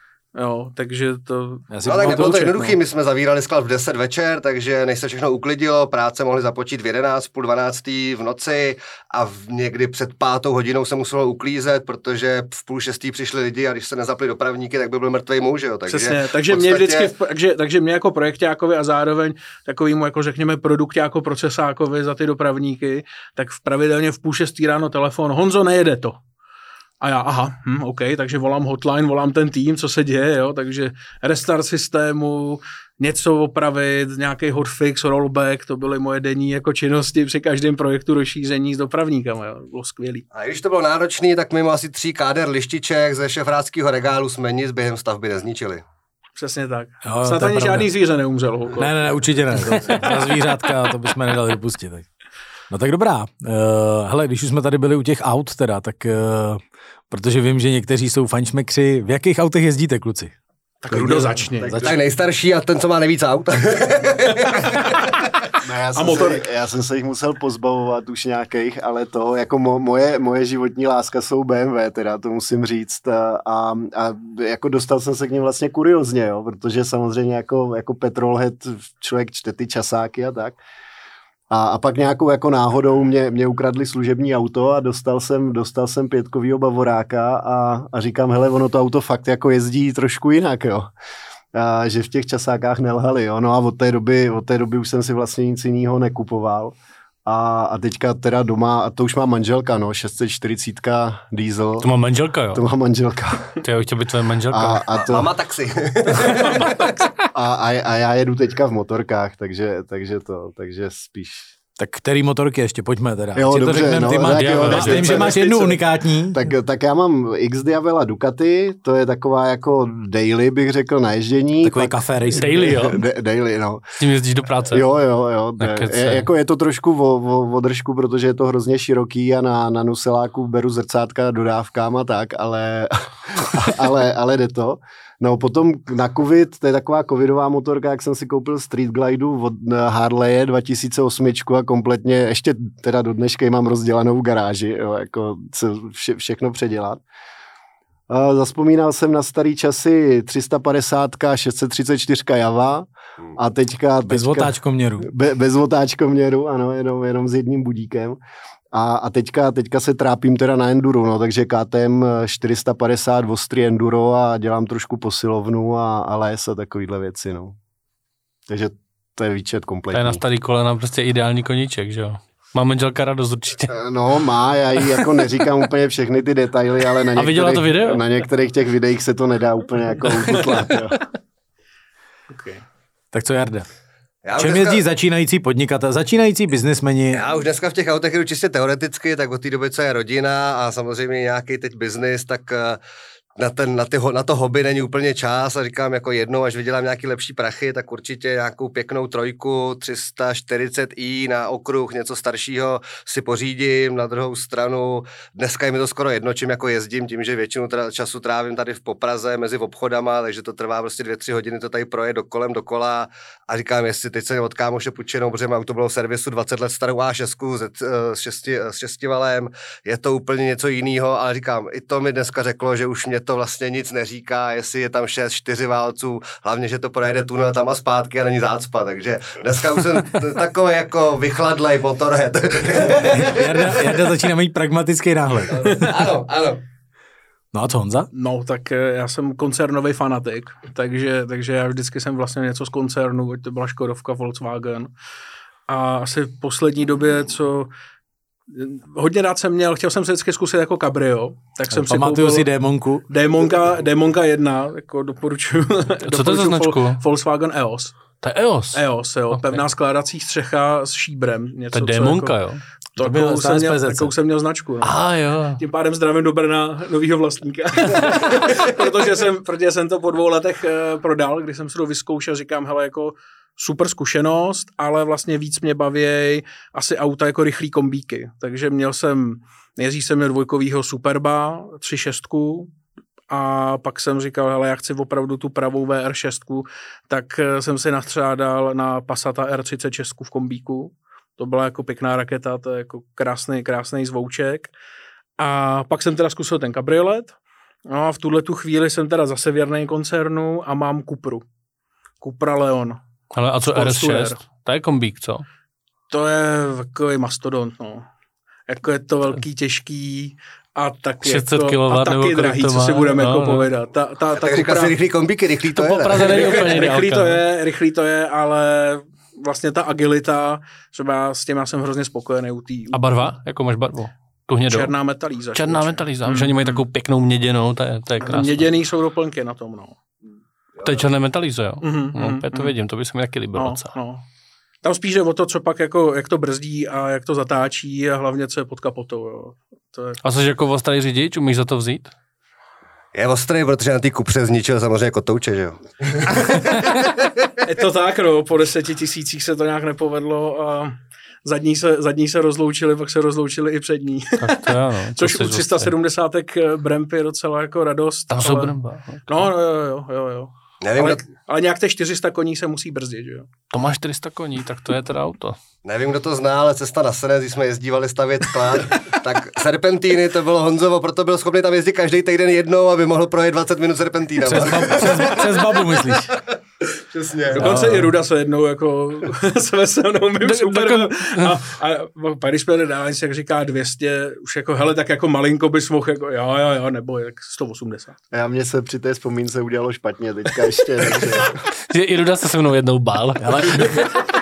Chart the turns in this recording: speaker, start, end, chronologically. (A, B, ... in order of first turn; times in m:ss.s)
0:00.3-0:02.8 A
0:01.7-0:02.5 B
0:01.8-0:17.1 C
0:15.9-0:26.2 A
0:27.0-0:40.2 A
0:40.3-0:45.8 C
0:46.4-0:49.0 A
0:47.0-0:47.9 B
0:48.8-0:52.1 B
0:49.7-0:50.0 A
0:52.7-1:00.3 B
1:00.8-1:01.8 A
1:00.9-1:02.0 B
1:01.8-1:05.3 C
1:05.6-1:20.6 D
1:05.9-1:06.4 A
1:21.5-1:30.9 D
1:31.5-1:36.7 D
1:37.2-1:41.9 D
1:41.8-1:42.6 E
1:42.5-1:43.6 D
1:43.6-1:45.0 E
1:44.5-1:45.3 D
1:45.0-1:47.0 C
1:46.2-1:46.9 A
1:47.3-1:51.5 D
1:51.8-1:56.4 B
1:53.3-2:03.8 D
1:54.2-1:55.3 E
2:01.6-2:02.6 B
2:02.3-2:03.0 E
2:04.0-2:04.8 E
2:04.7-2:27.0 D
2:05.6-2:06.3 E
2:28.1-2:38.2 D
2:34.0-2:35.1 B
2:38.7-2:47.6 D
2:48.5-2:50.2 D
2:49.9-2:53.8 E
2:53.7-3:01.0 D
2:54.8-2:55.1 E
2:57.1-2:58.0 E
3:00.2-3:00.9 E
3:02.3-3:02.6 A
3:03.1-3:03.7 B
3:04.2-3:04.8 C
3:04.4-3:07.2 B
3:07.1-3:12.8 C
3:13.4-3:53.9 C
3:53.0-3:55.9 B
3:55.5-3:56.6 C
3:57.5-3:58.1 B
3:58.1-4:04.9 A
4:05.7-4:07.7 A
4:08.5-4:12.5 A
4:11.7-4:13.0 B
4:13.1-4:17.9 A
4:16.1-4:17.0 E
4:18.2-4:19.6 E
4:18.7-4:25.0 A
4:21.7-4:22.6 E
4:23.0-4:24.1 B
4:24.8-4:25.6 E
4:25.6-4:42.7 A
4:43.3-4:54.7 A
4:55.4-4:57.4 A
4:57.9-5:01.4 A
5:02.2-5:03.0 A
5:03.3-5:05.4 E
5:03.6-5:04.4 A
5:06.1-5:08.1 A
5:08.7-5:15.0 A
5:11.2-5:13.7 E
5:14.4-5:16.6 C
5:15.7-5:17.4 E
5:16.1-5:23.2 A
5:22.9-5:24.9 E
5:24.6-5:26.8 A
5:25.5-5:28.6 E
5:28.2-5:30.0 A
5:30.8-5:33.9 E
5:31.8-5:32.7 A
5:33.5-5:34.2 A
5:34.8-5:40.2 A
5:40.2-5:42.1 E
5:43.1-5:47.3 C
5:47.6-5:58.8 A
5:54.4-5:55.9 E
5:58.3-5:59.5 E
5:59.3-6:03.5 A
6:00.8-6:01.2 C
6:03.7-6:05.6 E
6:05.8-6:17.9 C
6:14.4-6:16.3 B
6:17.5-6:28.2 A
6:17.6-6:18.1 B
6:20.4-6:21.6 E
6:28.3-6:31.6 D
6:31.9-6:34.1 E
6:33.4-6:34.1 B